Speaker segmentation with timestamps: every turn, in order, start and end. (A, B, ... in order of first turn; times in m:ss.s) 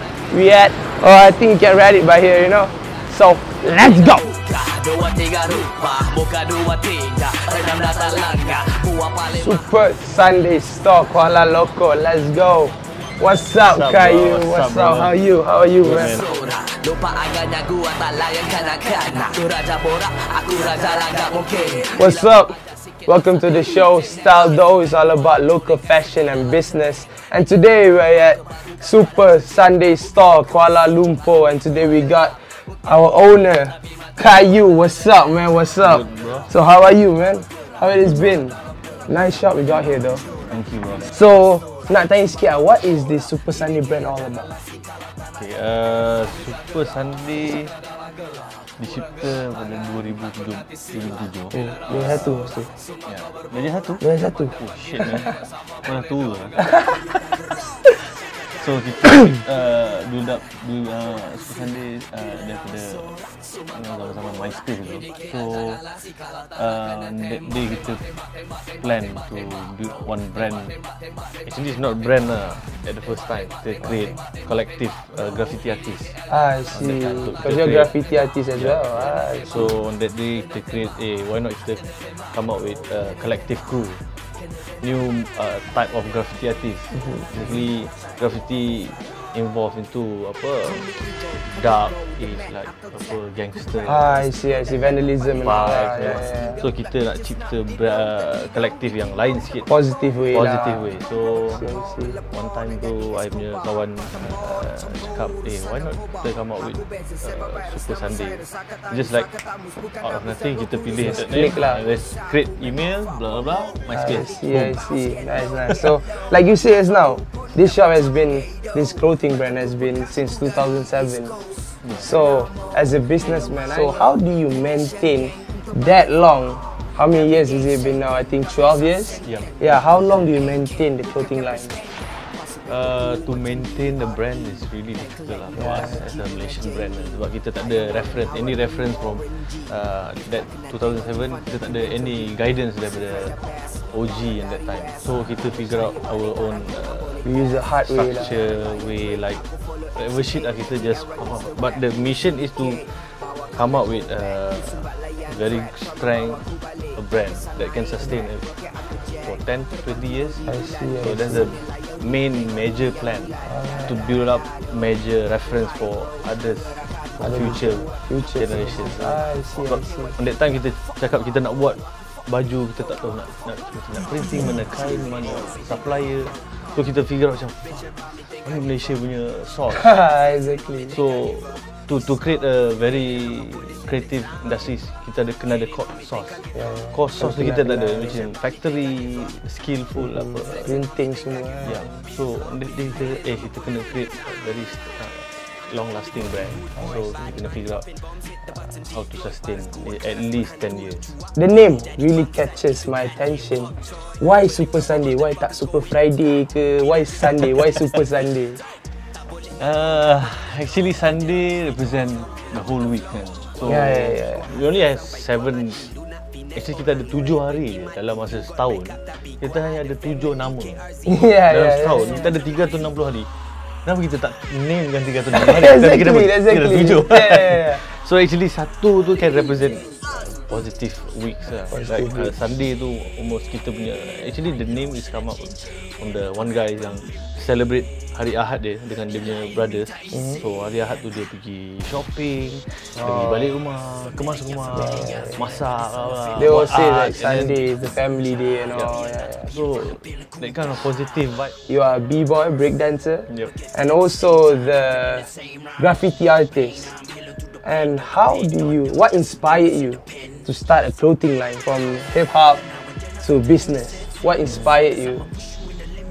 0:00.3-0:04.3 A
0:04.1-0:09.6 B
0:09.3-0:16.2 A
0:13.6-0:15.2 C
0:15.8-0:16.3 C
0:16.2-0:22.2 B
0:22.0-0:38.6 A
0:35.8-0:36.5 C
0:39.1-0:40.2 A
0:40.5-0:41.1 C
0:41.1-0:44.5 A
0:45.3-0:47.7 C
0:48.8-0:52.5 C
0:51.5-0:52.7 A
0:53.0-0:56.7 C
0:54.0-0:54.6 A
0:58.6-1:08.1 C
1:08.8-1:10.8 C
1:11.4-1:16.2 C
1:16.3-1:19.7 A
1:16.7-1:24.0 C
1:24.6-1:34.3 C
1:33.8-1:36.6 A
1:35.4-1:39.7 C
1:39.7-1:40.9 A
1:40.3-1:41.6 C
1:41.5-1:42.2 A
1:42.3-1:49.3 C
1:50.0-1:54.8 C
1:51.0-1:51.8 A
1:53.9-2:01.4 A
2:02.0-2:11.8 A
2:09.2-2:09.5 C
2:12.4-2:23.4 C
2:15.6-2:16.0 A
2:23.9-2:27.2 C
2:27.2-2:28.3 A
2:27.8-2:29.4 C
2:29.9-2:59.9 C
2:40.4-2:41.6 A
2:43.5-2:44.0 A
2:47.2-2:50.2 A
2:59.7-3:01.0 A
3:00.9-3:10.8 C
3:06.6-3:08.2 A
3:10.0-3:12.0 A
3:11.6-3:17.9 C
3:18.4-3:21.2 C
3:21.4-3:28.6 A
3:29.6-3:35.9 C
3:33.6-3:34.5 A
3:36.5-3:40.9 C
3:41.0-3:42.3 A
3:41.5-3:43.3 C
3:43.8-4:07.6 C
3:45.3-3:47.8 A
3:51.7-3:52.3 A
4:04.7-4:05.4 A
4:06.3-4:09.5 A
4:08.7-4:11.5 C
4:11.7-4:16.9 A
4:13.3-4:13.5 C
4:17.6-4:22.6 A
4:23.2-4:25.3 A